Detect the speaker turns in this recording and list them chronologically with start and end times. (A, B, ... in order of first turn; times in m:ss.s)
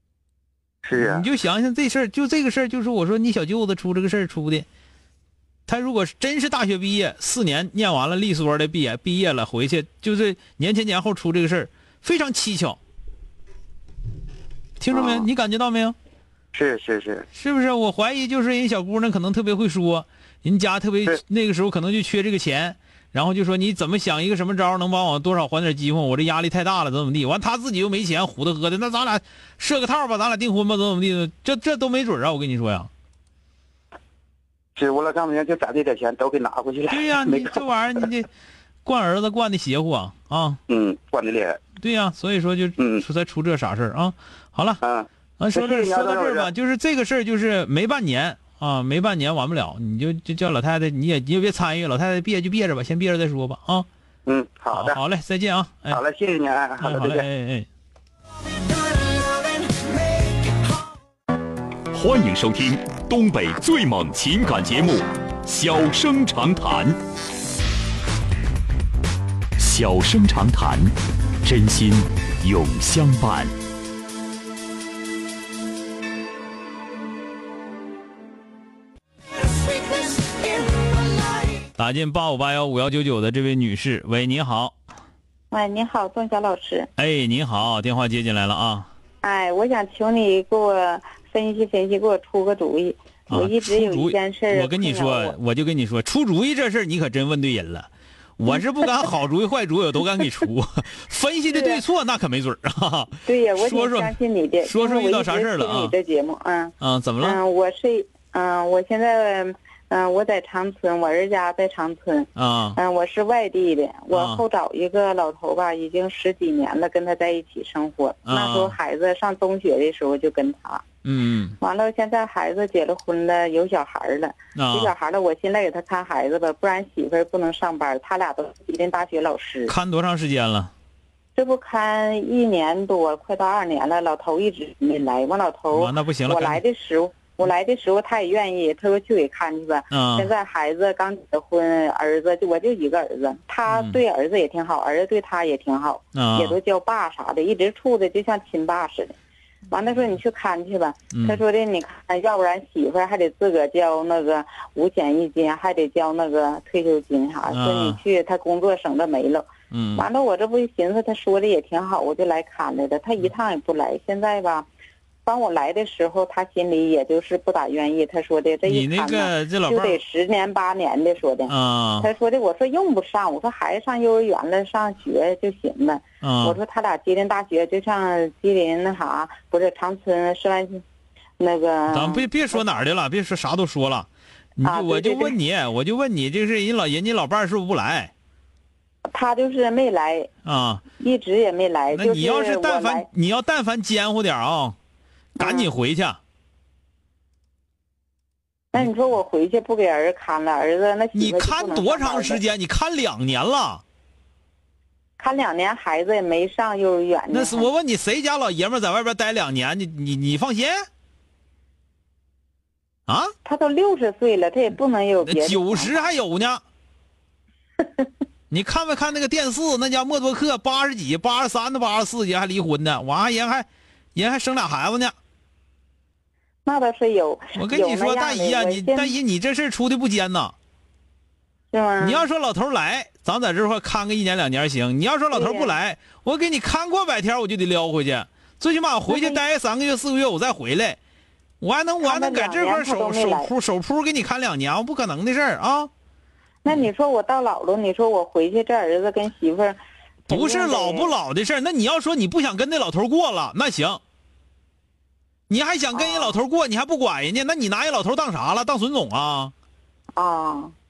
0:00.8-0:01.2 A
0:00.9-0:04.6 B
0:05.7-0:12.8 B
0:14.8-0:15.9 B
0:14.9-0:15.2 A
0:16.5-0:17.2 A
0:17.3-0:32.9 B
0:34.8-0:37.6 A
0:36.9-0:38.3 B
0:38.8-0:40.6 B
0:40.7-0:41.6 A
0:41.8-0:44.8 B
0:42.8-0:43.0 A
0:44.8-0:46.5 A
0:45.4-0:53.9 B
0:54.2-0:55.0 A
0:54.7-0:56.0 B
0:55.9-0:57.2 A
0:56.8-0:57.7 B
1:01.9-1:07.0 C
1:09.6-1:13.5 C
1:21.8-1:24.8 B
1:25.5-1:26.9 D
1:27.0-1:28.9 B
1:29.2-1:35.4 D
1:33.3-1:45.9 B
1:41.5-1:41.8 D
1:43.2-2:00.8 D
1:46.8-1:47.4 B
1:52.4-1:52.8 B
1:54.1-1:54.4 B
1:58.2-1:58.8 B
2:01.0-2:01.6 B
2:01.6-2:09.7 D
2:04.6-2:04.9 B
2:09.7-2:10.7 B
2:11.3-2:29.2 D
2:15.7-2:16.6 B
2:19.9-2:20.3 B
2:23.7-2:24.0 B
2:26.1-2:26.6 B
2:29.7-2:44.7 D
2:31.1-2:31.4 B
2:37.4-2:38.0 B
2:39.7-2:40.1 B
2:45.2-3:00.8 D
2:48.6-2:50.0 B
2:51.5-2:52.1 B
2:56.2-2:56.6 B
3:01.4-3:02.7 D
3:01.9-3:08.1 B
3:04.6-3:05.4 D
3:09.1-3:10.3 D
3:10.4-3:10.8 B
3:11.0-3:13.1 D
3:11.9-3:14.8 B
3:15.4-3:15.7 D
3:15.4-3:16.2 B
3:18.7-3:22.4 D
3:21.1-3:23.8 B
3:25.2-3:27.7 D
3:27.3-3:30.8 B
3:33.1-3:33.3 B
3:33.4-3:36.0 D
3:35.2-3:36.6 B
3:38.5-3:45.1 B
3:46.6-3:49.1 D
3:47.5-3:50.5 B
3:51.7-3:52.2 D
3:52.0-4:01.0 B
3:55.3-3:55.7 D
3:59.1-3:59.4 D
4:01.6-4:05.9 B
4:02.0-4:03.5 D
4:06.6-4:11.1 D
4:10.3-4:14.0 B
4:15.5-4:19.5 B
4:15.9-4:16.4 D
4:20.1-4:20.7 D